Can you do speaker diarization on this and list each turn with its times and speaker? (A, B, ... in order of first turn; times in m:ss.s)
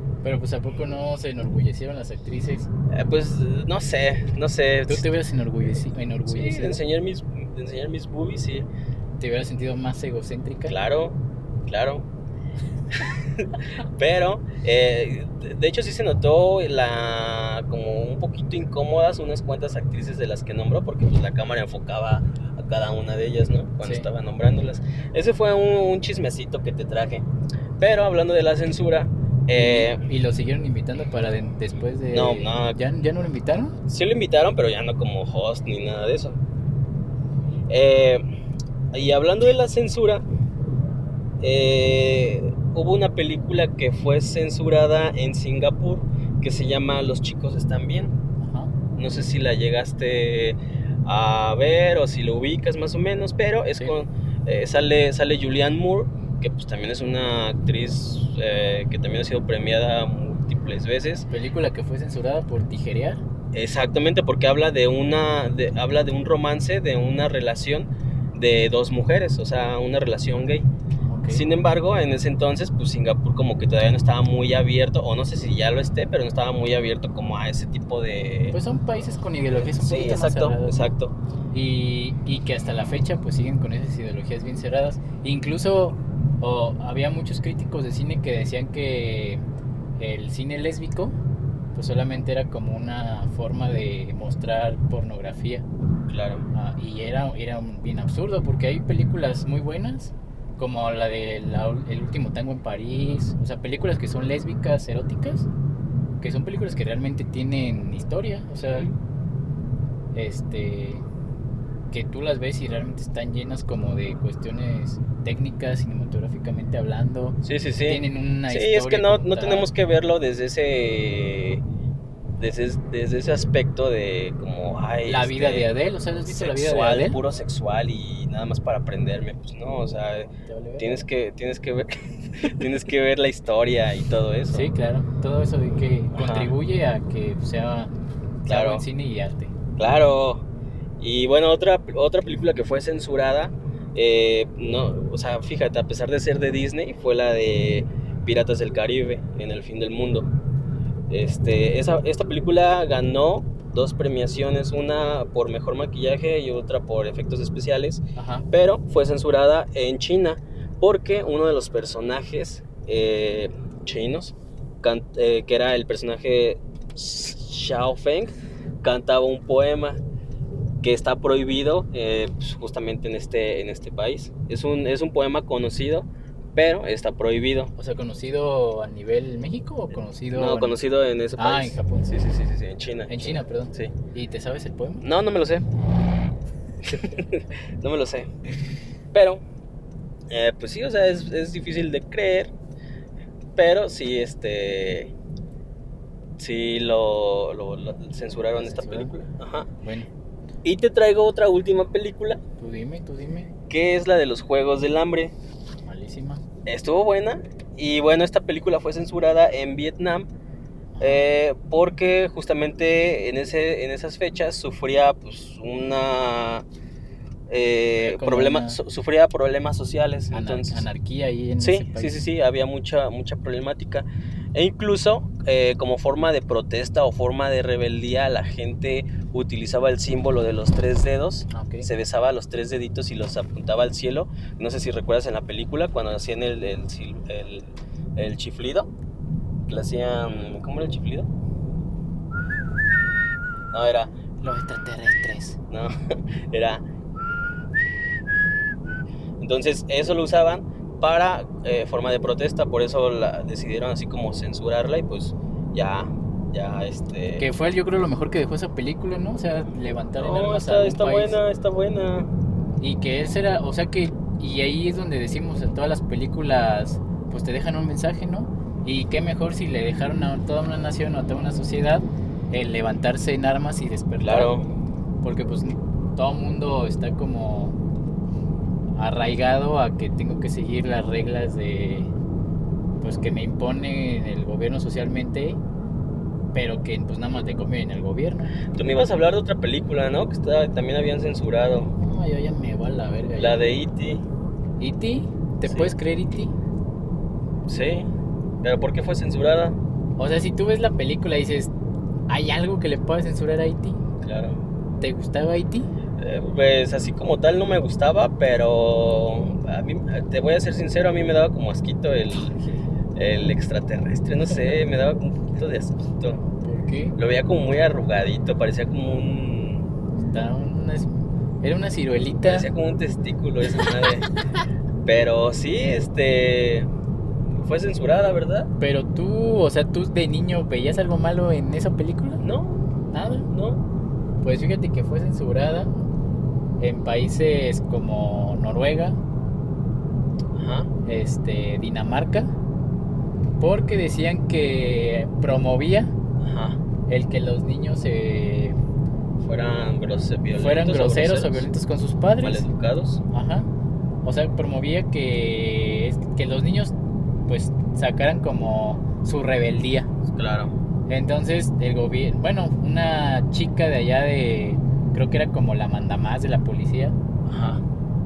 0:00.2-0:02.7 A
0:02.9-0:05.1 B
0:04.9-0:06.8 A
0:06.3-0:08.7 B
0:09.2-0:10.8 A
0:10.7-0:12.1 B
0:12.9-0:27.2 B
0:27.8-0:30.0 B
0:29.6-0:33.8 A
0:32.1-0:32.8 B
0:33.9-0:36.4 B
0:37.7-0:38.2 B
0:38.9-0:40.2 B
0:41.4-0:48.2 B
0:48.4-0:48.7 A
0:49.0-1:01.2 B
1:01.3-1:03.2 A
1:03.5-1:10.7 B
1:11.1-1:11.4 A
1:11.3-1:18.6 B
1:18.5-1:20.9 A
1:19.5-1:21.1 B
1:21.5-1:29.4 A
1:30.0-1:31.1 A
1:31.8-1:35.6 A
1:36.1-1:36.5 B
1:36.5-1:45.5 A
1:46.2-1:48.9 A
1:50.1-1:51.0 A
1:51.9-1:59.7 A
1:57.4-2:01.6 B
2:02.4-2:05.7 B
2:05.0-2:07.2 A
2:06.2-2:14.7 B
2:10.5-2:11.0 A
2:14.5-2:17.9 A
2:16.1-2:16.5 B
2:18.5-2:18.8 B
2:18.5-2:19.5 A
2:19.8-2:20.4 B
2:21.0-2:30.3 B
2:31.1-2:50.0 B
2:38.2-2:38.5 A
2:50.8-2:57.7 B
2:57.8-3:00.8 A
3:00.3-3:03.9 B
3:01.4-3:02.1 A
3:03.1-3:05.0 A
3:05.0-3:05.7 B
3:06.8-3:08.3 B
3:09.1-3:09.4 B
3:10.3-3:12.5 B
3:13.6-3:15.1 B
3:16.4-3:19.7 B
3:18.6-3:19.1 A
3:19.8-3:20.1 A
3:20.6-3:22.4 B
3:22.6-3:23.5 A
3:23.7-3:25.3 B
3:25.8-3:26.4 A
3:26.7-3:30.3 B
3:30.9-3:31.2 A
3:31.0-3:36.6 B
3:37.5-3:40.9 B
3:38.0-3:38.8 A
3:40.3-3:42.2 A
3:41.6-3:58.9 B
3:51.5-3:51.9 A
3:59.7-4:01.3 B
4:03.7-4:04.1 B
4:04.4-4:05.6 A
4:05.7-4:06.8 B
4:09.4-4:17.5 B
4:17.4-4:21.4 A
4:20.2-4:22.3 B
4:22.8-4:34.5 A
4:34.2-4:34.7 B
4:35.2-4:37.8 A
4:39.0-4:42.1 A
4:43.0-4:45.6 A
4:46.5-4:48.6 A
4:48.7-4:51.9 B
4:52.0-4:53.6 A
4:53.3-4:54.2 B
4:54.8-4:56.5 A
4:57.7-4:58.1 B
4:58.6-4:59.8 B
5:00.2-5:01.7 A
5:02.3-5:04.0 A
5:04.2-5:04.6 B
5:05.0-5:05.9 A
5:06.2-5:12.6 B
5:13.2-5:16.4 B
5:16.6-5:17.2 A
5:17.2-5:19.9 B
5:20.3-5:22.7 A
5:22.4-5:24.3 B
5:25.0-5:26.9 B
5:27.6-5:28.7 B
5:28.8-5:32.4 A
5:32.4-5:32.8 B
5:33.1-5:33.5 A
5:33.5-5:33.8 B
5:34.4-5:35.9 A
5:36.8-5:39.2 A
5:40.5-5:40.9 B
5:41.0-5:42.5 A
5:43.6-5:46.1 A
5:46.4-5:46.8 B
5:47.1-5:48.8 A
5:49.4-5:51.7 B
5:50.6-5:52.7 A
5:52.4-5:53.2 B
5:53.3-5:53.7 A
5:54.2-5:56.9 A
5:57.5-6:00.1 A
6:00.3-6:00.7 B
6:01.1-6:07.2 A
6:07.5-6:07.8 B